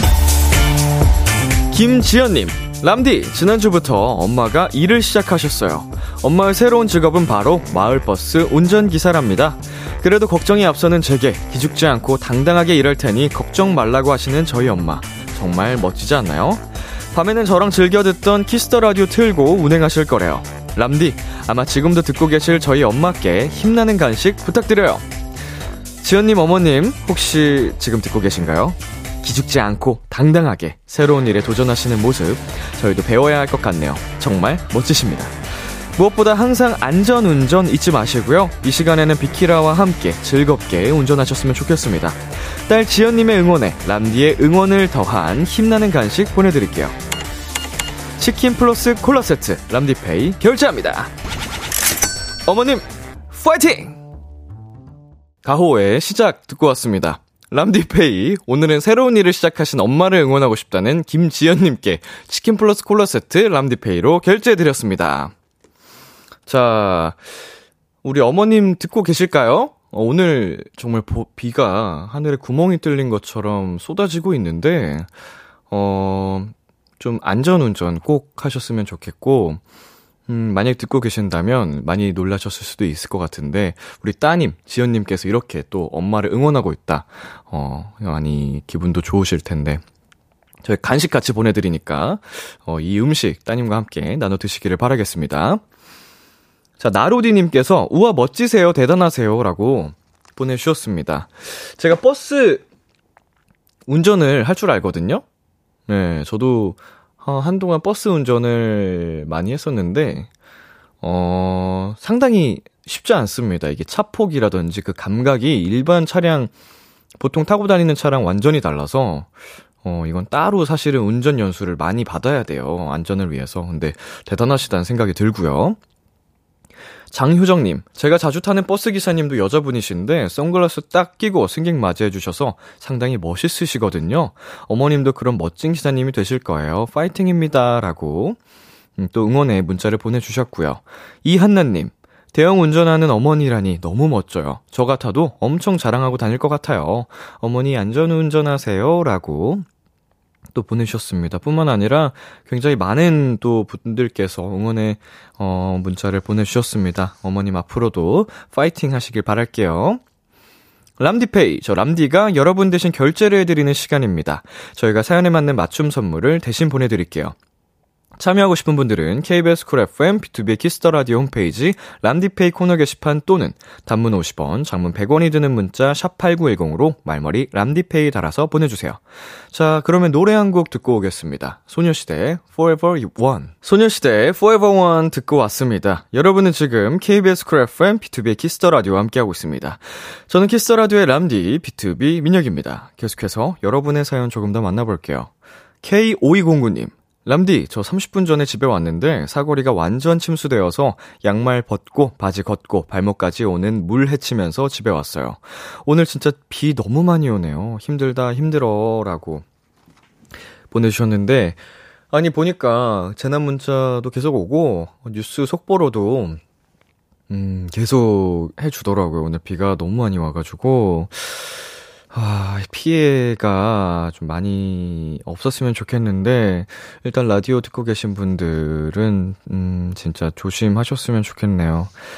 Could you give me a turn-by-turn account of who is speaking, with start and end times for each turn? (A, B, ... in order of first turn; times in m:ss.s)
0:01.7-0:25.0 A
0:26.0-0:35.3 A
0:36.0-0:46.9 A
0:48.2-0:51.1 A
0:52.4-0:54.0 A
0:55.4-1:05.3 A
1:06.5-1:07.2 A
1:08.0-1:15.1 A
1:15.7-1:19.6 A
1:20.3-1:29.8 A
1:30.6-1:35.6 A
1:36.8-1:42.6 A
1:43.9-1:45.2 A
1:45.9-1:50.3 A
1:51.0-1:56.5 A
1:57.2-1:59.3 A
1:59.8-2:05.8 A
2:07.1-2:18.4 A
2:19.0-2:29.6 A
2:30.5-2:40.0 A
2:41.0-2:47.3 A
2:48.2-2:59.0 A
2:59.5-3:15.3 A
3:15.8-3:29.4 A
3:30.7-3:31.6 A
3:32.1-3:36.4 A
3:37.3-3:51.9 A